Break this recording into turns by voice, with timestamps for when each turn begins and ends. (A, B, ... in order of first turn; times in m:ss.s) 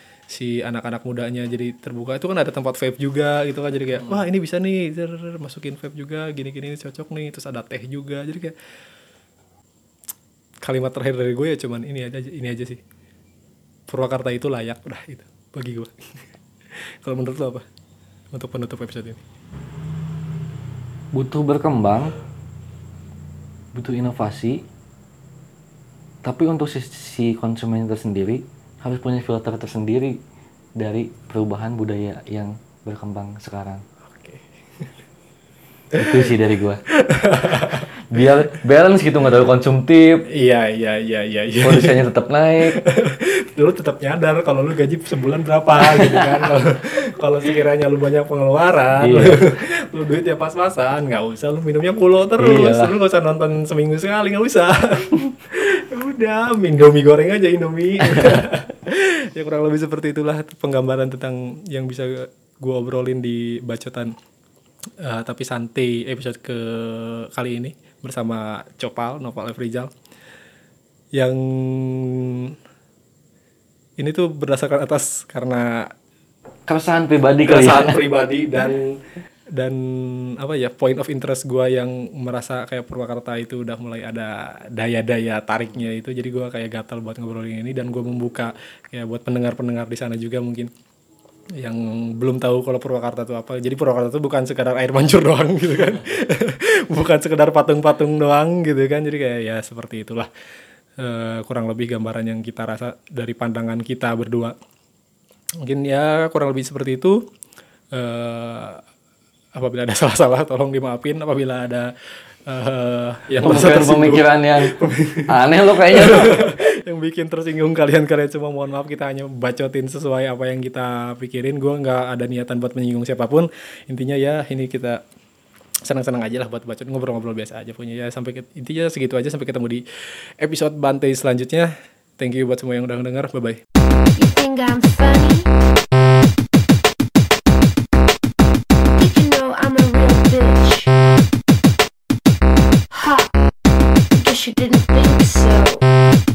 0:00.3-0:08.6 A
0:10.6-0:12.8 A
0:13.9-0:16.2 A
0:16.8-0:17.7 A
0:18.3-0:19.2 A
0:21.1-0:22.1 B
0:23.7-0:24.6 B
0:26.2-0:30.2 B
0:30.8-0:33.8 B
0:34.1-0:34.9 A
0:36.0-0:36.3 A
0:36.0-0:36.8 B
0:36.9-0:38.3 A
0:38.1-0:40.3 B
0:40.3-0:42.0 A
0:41.6-0:42.8 B
0:42.7-1:04.1 A
0:45.8-0:46.2 B
0:49.0-0:49.4 B
0:52.4-0:52.9 B
0:58.1-0:58.4 B
1:05.0-1:09.9 A
1:11.1-1:12.6 A
1:14.0-1:15.9 A
1:16.7-1:18.0 B
1:17.4-1:19.0 A
1:19.5-1:30.7 A
1:31.6-1:40.3 A
1:41.0-1:44.6 A
1:45.6-1:47.2 A
1:47.9-1:48.8 A
1:49.6-1:51.9 A
1:52.5-2:05.0 A
1:53.4-1:54.8 B
1:55.3-1:56.5 B
2:05.9-2:13.6 A
2:14.2-2:15.5 C
2:18.8-2:20.9 C
2:22.9-2:23.3 C
2:24.2-2:25.9 C